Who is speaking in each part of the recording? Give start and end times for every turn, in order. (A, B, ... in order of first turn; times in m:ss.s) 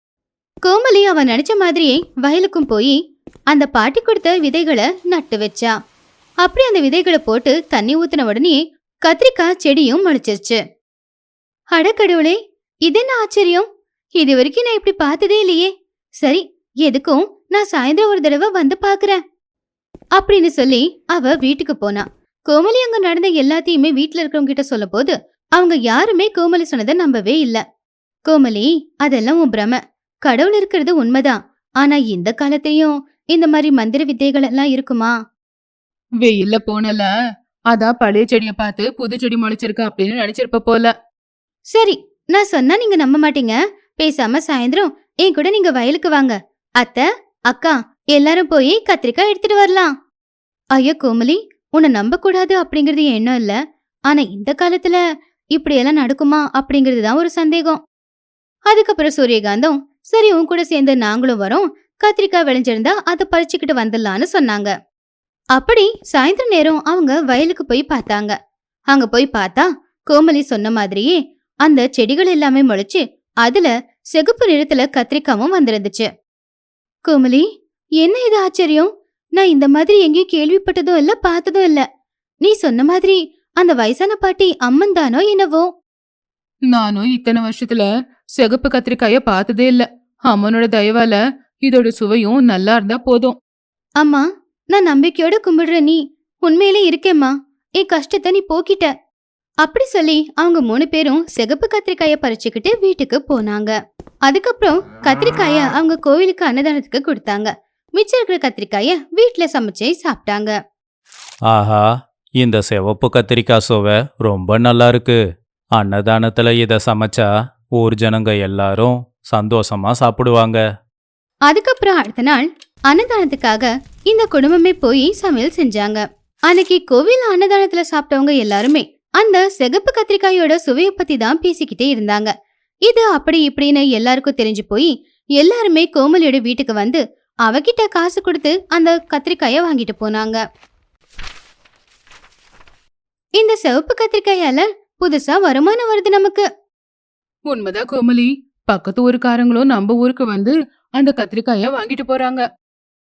0:00.6-0:03.0 A
0:03.5-0:05.7 A
0:06.4-0:10.6 A
0:11.7-0:12.4 A
0:12.9-0:13.6 A
0:14.2-0:15.7 A
0:16.2-0:19.2 A
0:20.2-0:27.6 A
0:28.3-0:35.1 A
0:36.2-0:37.1 B
0:37.7-0:40.9 B
0:41.7-0:49.9 A
0:50.7-0:53.5 A
0:54.1-0:55.0 A
0:55.6-0:57.8 A
0:58.7-1:04.7 A
1:05.6-1:08.3 A
1:08.9-1:16.1 A
1:17.1-1:17.4 A
1:18.0-1:21.8 A
1:22.4-1:25.7 A
1:26.7-1:27.9 B
1:28.4-1:33.3 B
1:34.0-1:38.9 A
1:39.6-1:43.7 A
1:44.3-1:50.5 A
1:51.5-1:51.8 C
1:52.4-1:55.2 C
1:55.8-1:57.3 C
1:57.8-2:00.6 C
2:01.5-2:12.3 A
2:12.8-2:20.4 A
2:23.4-2:26.4 A
2:27.5-2:32.4 B